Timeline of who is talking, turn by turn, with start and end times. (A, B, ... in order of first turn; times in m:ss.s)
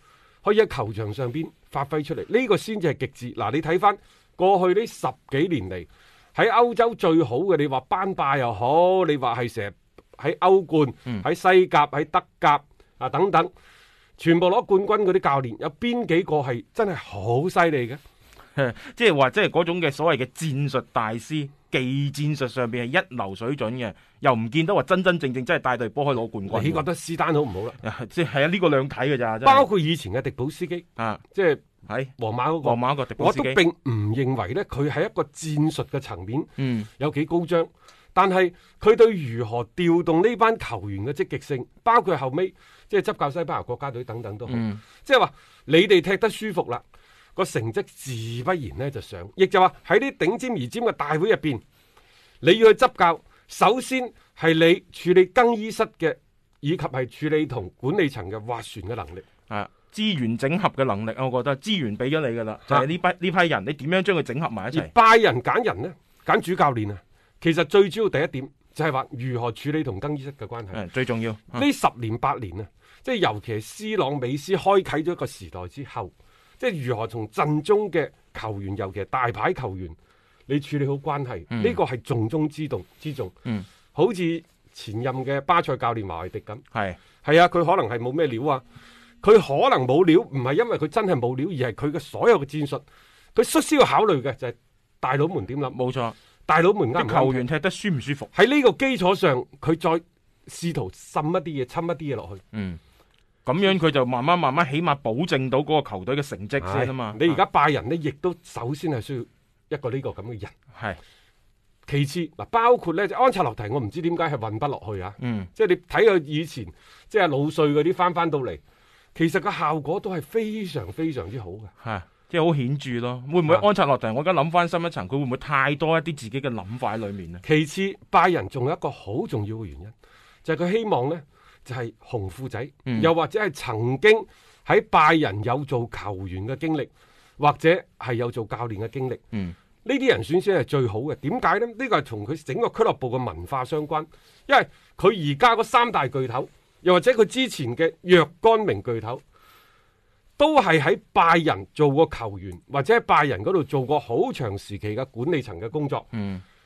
0:00.4-0:13.5 A
0:14.2-0:18.0 A
0:18.6-0:26.8 B
0:26.5-0:27.8 A
0:27.8-0:29.6 B
0:29.4-0:31.6 A
0:31.0-0:31.2 B
0:31.9-0:33.6 B
0:32.2-0:46.8 A
0:36.6-0:36.9 B
0:44.5-0:44.8 B
0:47.3-0:51.6 A
0:52.4-0:59.2 A
0:59.5-1:04.9 B
1:04.7-1:10.8 A
1:10.7-1:11.6 B
1:11.5-1:20.0 A
1:20.5-1:23.3 A
1:21.5-1:21.8 B
1:23.9-1:26.6 A
1:27.2-1:28.6 A
1:29.2-1:32.8 A
1:33.3-1:35.8 A
1:35.7-1:36.2 B
1:36.5-1:37.4 A
1:37.0-1:38.3 B
1:38.3-1:42.4 A
1:42.5-1:42.8 B
1:43.4-1:47.4 B
1:46.6-1:50.5 A
1:50.7-1:51.0 B
1:51.9-1:58.6 A
1:55.2-1:55.5 B
1:59.1-2:01.7 A
2:01.8-2:07.4 B
2:07.4-2:09.9 A
2:10.4-2:19.2 A
2:19.8-2:29.2 A
2:30.4-2:36.1 A
2:36.1-2:36.4 B